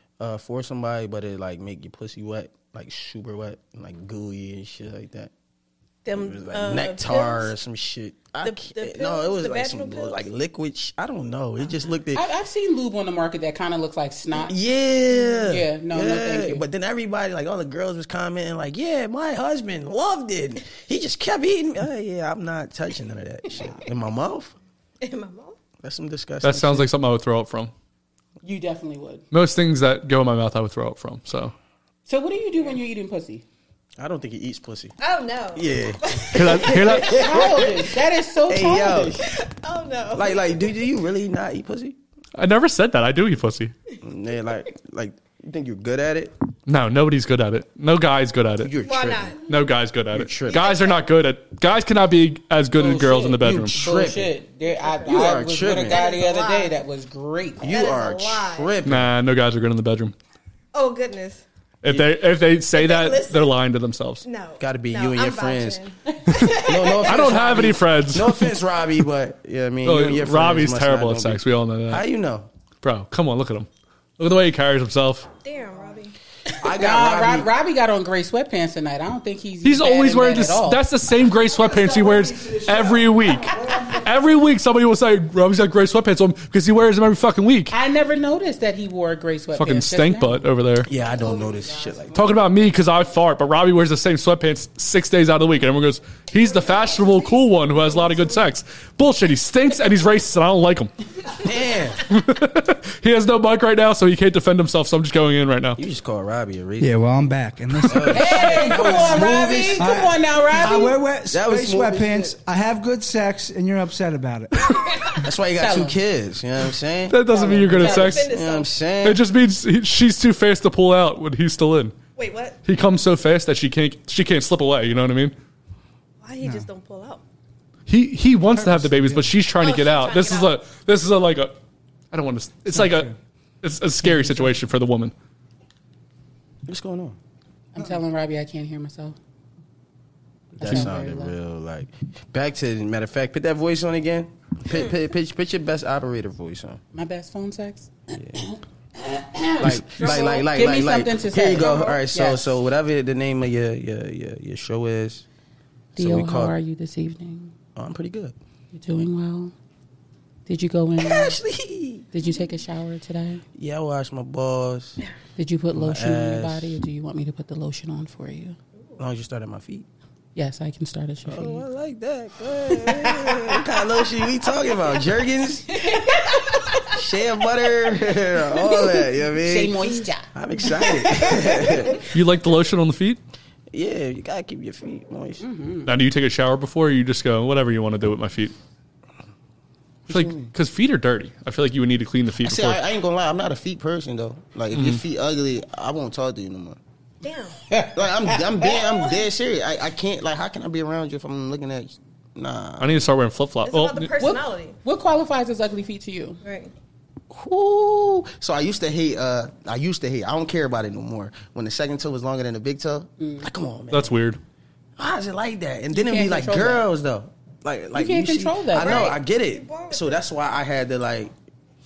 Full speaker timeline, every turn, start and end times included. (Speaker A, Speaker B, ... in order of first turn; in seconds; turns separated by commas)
Speaker A: 0.2-5.3, Speaker B: 6.0-7.5, Speaker A: 6.1-12.3, Speaker B: 8.4-10.2, Speaker C: 12.1-14.5, Speaker A: 14.3-24.5, Speaker C: 15.4-16.6, Speaker B: 25.0-25.6, Speaker A: 25.8-26.9, Speaker D: 26.4-27.7, Speaker C: 28.4-29.2, Speaker D: 29.3-31.5, Speaker C: 32.1-33.4, Speaker A: 34.0-34.9, Speaker B: 35.0-37.9, Speaker A: 35.5-37.9, Speaker D: 36.3-37.2, Speaker C: 37.0-39.1, Speaker A: 38.5-39.2, Speaker B: 39.2-40.8, Speaker A: 40.1-42.0, Speaker D: 42.4-43.7, Speaker A: 44.0-46.3, Speaker D: 46.7-48.7, Speaker A: 48.6-49.3, Speaker B: 48.8-49.4, Speaker D: 49.5-53.8, Speaker A: 50.1-50.7, Speaker B: 50.5-51.1, Speaker C: 52.7-57.8, Speaker A: 53.4-54.3, Speaker B: 54.7-56.8, Speaker A: 55.1-56.0, Speaker A: 57.6-59.1, Speaker B: 57.6-58.8, Speaker D: 58.9-60.1, Speaker B: 60.7-61.4, Speaker D: 61.8-64.2, Speaker B: 62.7-63.6, Speaker B: 64.2-67.4, Speaker A: 64.6-65.8, Speaker D: 66.3-68.5, Speaker A: 66.6-72.5, Speaker D: 69.8-72.0, Speaker D: 72.8-75.3, Speaker B: 75.4-76.1, Speaker A: 76.6-77.5, Speaker C: 76.7-80.8, Speaker D: 79.6-87.7, Speaker E: 81.4-84.2, Speaker C: 87.7-90.5, Speaker D: 89.5-90.9, Speaker A: 90.8-92.2, Speaker E: 91.3-91.6, Speaker D: 92.1-100.9, Speaker B: 96.6-97.4, Speaker B: 97.9-98.3, Speaker A: 101.3-102.0, Speaker D: 102.1-105.8, Speaker A: 105.8-107.0, Speaker E: 106.8-115.2, Speaker A: 107.8-110.0, Speaker C: 108.1-111.0, Speaker A: 110.7-112.4, Speaker C: 115.2-116.0, Speaker A: 115.2-119.2, Speaker D: 117.1-118.3, Speaker C: 117.2-118.2, Speaker B: 117.6-118.7, Speaker D: 119.0-122.0, Speaker B: 122.2-122.6, Speaker D: 122.6-125.3, Speaker B: 126.2-127.2, Speaker E: 126.4-126.7, Speaker D: 127.9-131.6, Speaker E: 128.4-129.4, Speaker B: 129.6-130.6, Speaker D: 132.1-135.1, Speaker E: 132.7-133.1, Speaker A: 136.7-137.2, Speaker C: 137.7-139.2, Speaker C: 140.5-141.3, Speaker A: 140.6-146.8, Speaker C: 146.9-152.5, Speaker A: 148.2-148.4, Speaker A: 149.6-155.2, Speaker B: 150.0-150.4, Speaker B: 151.7-152.0, Speaker A: 155.9-156.6, Speaker C: 155.9-157.5, Speaker A: 157.7-158.3, Speaker C: 158.7-159.5, Speaker C: 160.5-161.4, Speaker A: 161.0-162.1, Speaker C: 162.1-163.4, Speaker A: 163.5-165.0, Speaker C: 165.4-168.6, Speaker A: 165.7-166.8, Speaker A: 169.0-169.9, Speaker C: 170.3-171.6, Speaker A: 171.3-176.0, Speaker B: 172.8-173.6, Speaker B: 176.4-176.8, Speaker A: 176.8-182.0, Speaker C: 179.4-182.0, Speaker D: 182.1-183.2, Speaker A: 183.7-185.4, Speaker C: 185.4-185.9, Speaker D: 185.8-188.5, Speaker A: 190.1-190.5, Speaker D: 190.1-192.8, Speaker A: 192.4-196.8, Speaker D: 194.7-195.0, Speaker B: 197.2-197.6, Speaker C: 197.7-198.4, Speaker A: 197.9-203.0, Speaker B: 198.6-199.3, Speaker D: 202.8-204.1, Speaker B: 203.6-204.8, Speaker C: 204.2-206.4, Speaker B: 206.4-206.7, Speaker A: 207.3-214.2, Speaker C: 213.2-213.5, Speaker D: 213.9-214.4, Speaker A: 215.0-221.3, Speaker C: 215.9-216.9, Speaker C: 217.9-219.1, Speaker B: 218.8-220.2